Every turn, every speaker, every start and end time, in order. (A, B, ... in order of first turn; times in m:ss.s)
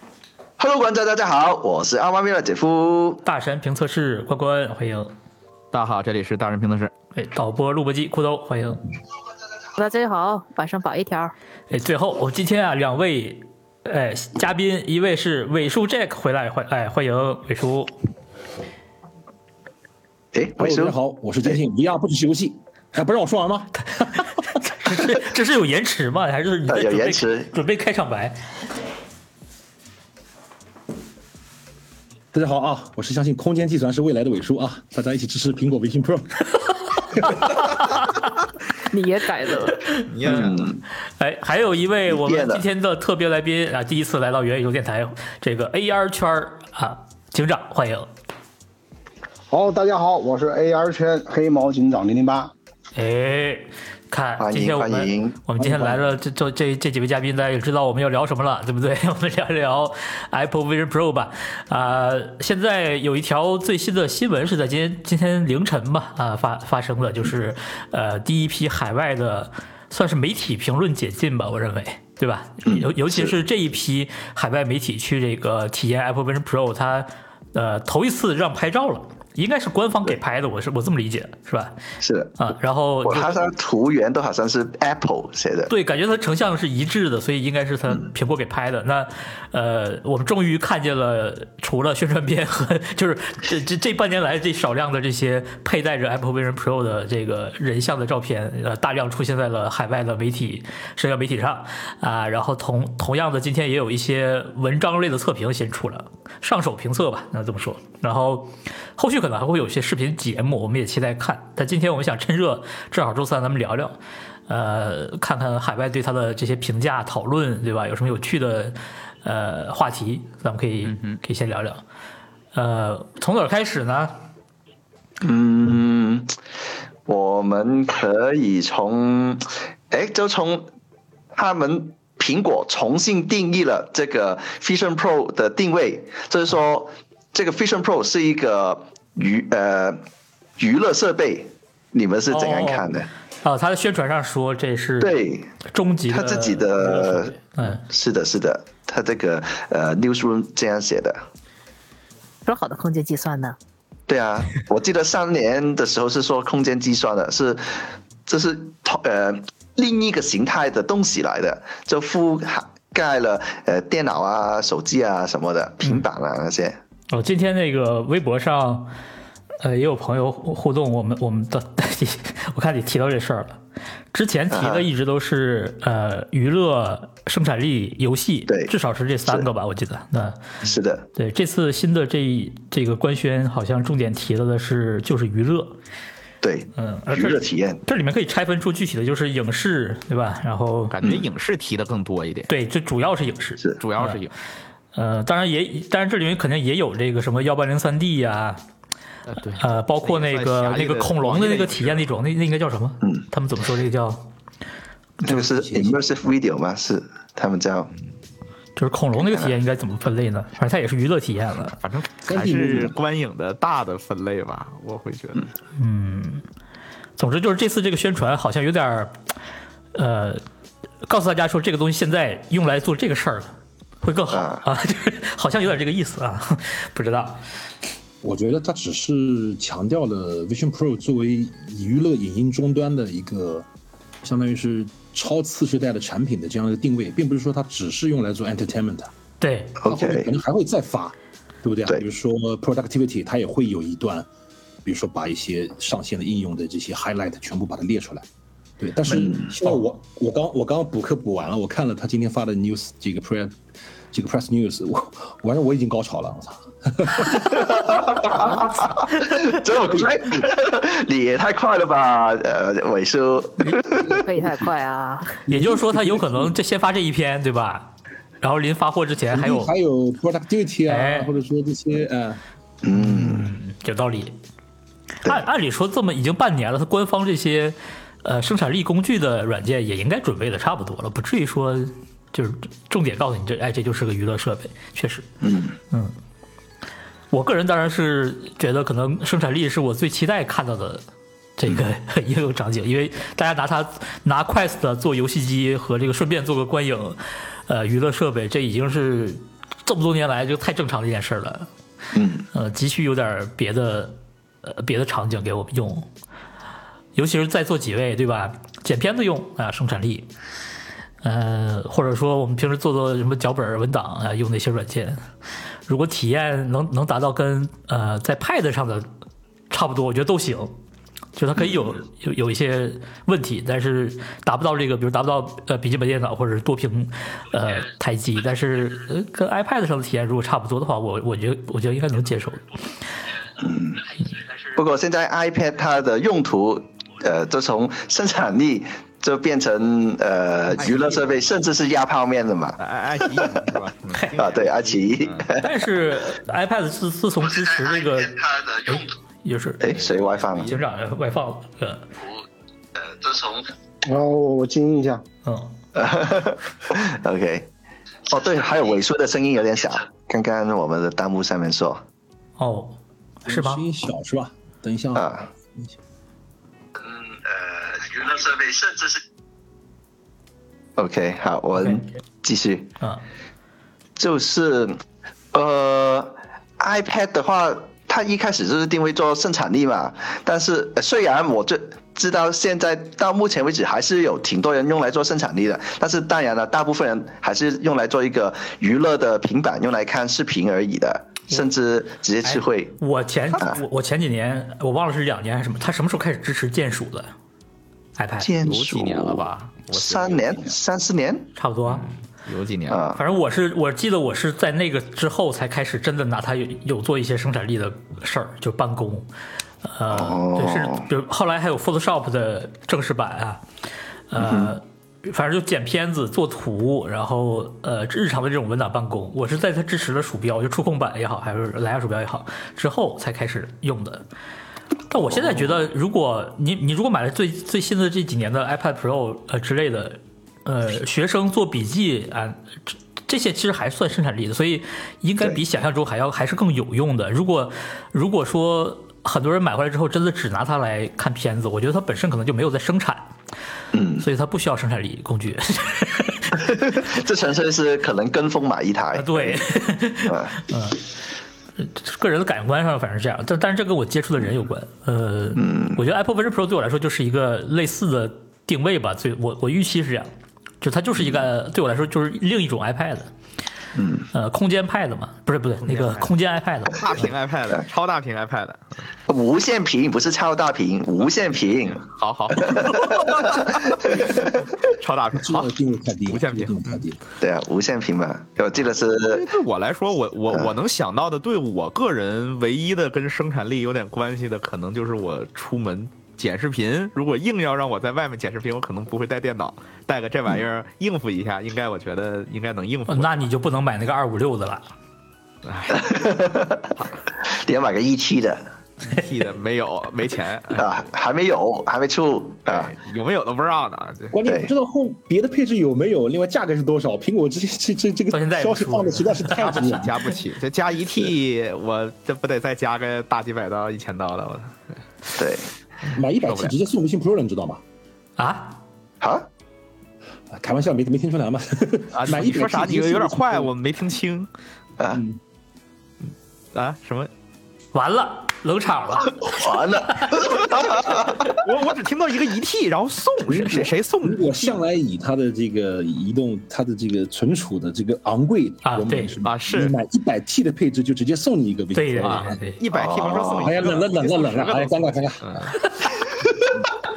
0:00.6-0:03.2 A
0:03.2-0:05.1 B
0:05.7-0:06.9 C
0:07.2-0:08.8 B
0:09.8-0:11.3 D
0:11.7-0:17.9 B
0:20.3-0:21.0 A
0:20.6-0:24.3 E
0:24.7-0:28.4 B
0:26.7-0:27.5 A
0:32.3-0:37.5 E
0:38.9-0:39.9 D
0:40.0-0:40.6 C
0:40.2-0:40.6 B
0:40.2-0:40.8 A
0:41.2-0:48.1 B
0:42.1-0:42.6 A
0:49.5-0:52.5 F
0:53.0-1:21.8 B
0:54.4-0:56.0 A
1:12.6-1:13.3 A
1:22.0-1:22.3 A
1:22.4-1:23.4 B
1:23.0-1:25.7 A
1:25.7-1:54.0 B
1:54.5-2:01.8 B
2:02.5-2:04.1 B
2:05.2-2:06.4 A
2:07.1-2:10.7 A
2:11.4-2:20.0 A
2:20.6-2:23.1 A
2:22.3-2:22.9 B
2:23.4-2:27.8 B
2:25.0-2:25.5 A
2:26.1-2:31.2 A
2:32.5-2:33.6 D
2:34.1-2:46.8 A
2:47.1-2:48.9 B
2:49.6-2:53.6 B
2:54.1-3:00.4 B
2:54.5-2:54.9 A
3:00.6-3:01.1 A
3:01.1-3:05.8 B
3:06.4-3:07.8 A
3:06.8-3:11.0 B
3:10.9-3:12.5 C
3:12.5-3:14.2 B
3:13.8-3:14.3 C
3:15.0-3:18.6 B
3:19.3-3:22.0 C
3:19.6-3:24.3 B
3:25.2-3:27.9 A
3:25.2-3:26.0 E
3:28.8-3:31.8 B
3:29.2-3:29.5 A
3:31.8-3:35.5 C
3:32.3-3:32.9 E
3:35.8-3:36.4 B
3:37.2-3:39.2 B
3:39.9-3:40.4 B
3:41.1-3:47.4 B
3:44.3-3:44.6 A
3:48.2-3:53.7 E
3:54.2-3:59.1 E
3:59.4-3:59.8 B
3:59.8-4:00.3 A
3:59.8-4:04.3 E
4:04.8-4:08.2 E
4:08.8-4:13.6 E
4:09.1-4:09.8 B
4:14.1-4:18.5 E
4:17.7-4:24.2 A
4:24.1-4:25.4 D
4:25.5-4:29.7 B
4:25.5-4:26.5 E
4:29.3-4:32.4 E
4:30.9-4:31.3 B
4:32.8-4:33.5 A
4:32.9-4:34.4 B
4:35.2-4:45.3 B
4:45.4-4:45.8 A
4:47.3-4:51.0 B
4:51.6-5:01.7 B
5:02.1-5:02.5 A
5:02.5-5:06.1 B
5:07.2-5:10.3 B
5:11.2-5:15.2 B
5:15.9-5:19.1 B
5:19.7-5:20.7 B
5:21.4-5:32.8 B
5:33.6-5:34.0 A
5:34.7-5:43.6 A
5:40.8-5:41.4 C
5:42.8-5:45.5 C
5:44.4-5:45.7 A
5:45.6-5:50.1 B
5:48.4-5:48.9 A
5:49.8-5:50.7 A
5:50.1-5:50.8 C
5:50.7-5:52.1 B
5:53.0-5:53.7 A
5:54.0-5:55.2 F
5:55.4-5:55.7 B
5:56.0-5:57.7 A
5:58.3-6:02.0 A
6:02.6-6:03.8 B
6:03.5-6:06.0 E
6:05.2-6:05.5 A
6:07.1-6:09.2 A
6:11.0-6:12.9 A
6:14.2-6:15.0 A
6:15.5-6:32.9 A
6:32.4-6:37.3 B
6:38.2-6:38.5 B
6:38.4-6:41.5 A
6:38.6-6:40.7 C
6:41.6-6:42.1 B
6:41.9-6:43.0 C
6:42.9-6:43.2 A
6:43.2-6:49.3 B
6:49.8-6:53.6 B
6:50.1-6:51.1 A
6:54.3-7:04.2 B
6:54.4-6:54.7 A
7:05.1-7:23.3 B
7:05.3-7:05.8 A
7:23.9-7:24.2 A
7:24.2-7:26.7 B
7:26.6-7:29.6 A
7:29.2-7:31.0 B
7:30.2-7:30.6 A
7:31.8-7:40.3 B
7:35.6-7:36.0 A
7:40.8-7:43.3 B
7:44.0-7:44.3 A
7:44.3-7:47.0 B
7:45.8-7:46.3 C
7:46.9-7:49.0 C
7:49.3-7:52.0 A
7:52.0-7:55.7 C
7:52.6-7:54.4 A
7:55.4-7:57.2 E
7:56.3-7:57.0 C
7:57.4-7:59.5 A
7:59.2-8:13.3 C
8:13.1-8:14.8 B
8:15.6-8:16.4 C
8:15.9-8:16.9 A
8:17.4-8:18.6 A
8:19.0-8:21.0 C
8:20.7-8:22.9 A
8:22.7-8:24.4 C
8:24.3-8:30.2 E
8:24.4-8:24.7 A
8:28.3-8:30.0 B
8:29.5-8:34.7 C
8:35.4-8:35.7 A
8:36.1-8:37.8 E
8:36.4-8:36.7 C
8:38.4-8:38.8 B
8:39.2-8:39.5 A
8:40.5-8:43.7 E
8:42.1-8:44.5 C
8:45.1-8:45.4 E
8:46.7-8:47.3 C
8:47.9-8:49.6 B
8:49.4-8:51.5 A
8:51.0-8:54.8 C
8:53.5-9:02.6 E
8:58.8-8:59.4 B
8:59.4-9:00.0 C
9:01.9-9:02.8 B
9:02.2-9:05.8 C
9:02.9-9:03.7 A
9:03.4-9:05.9 E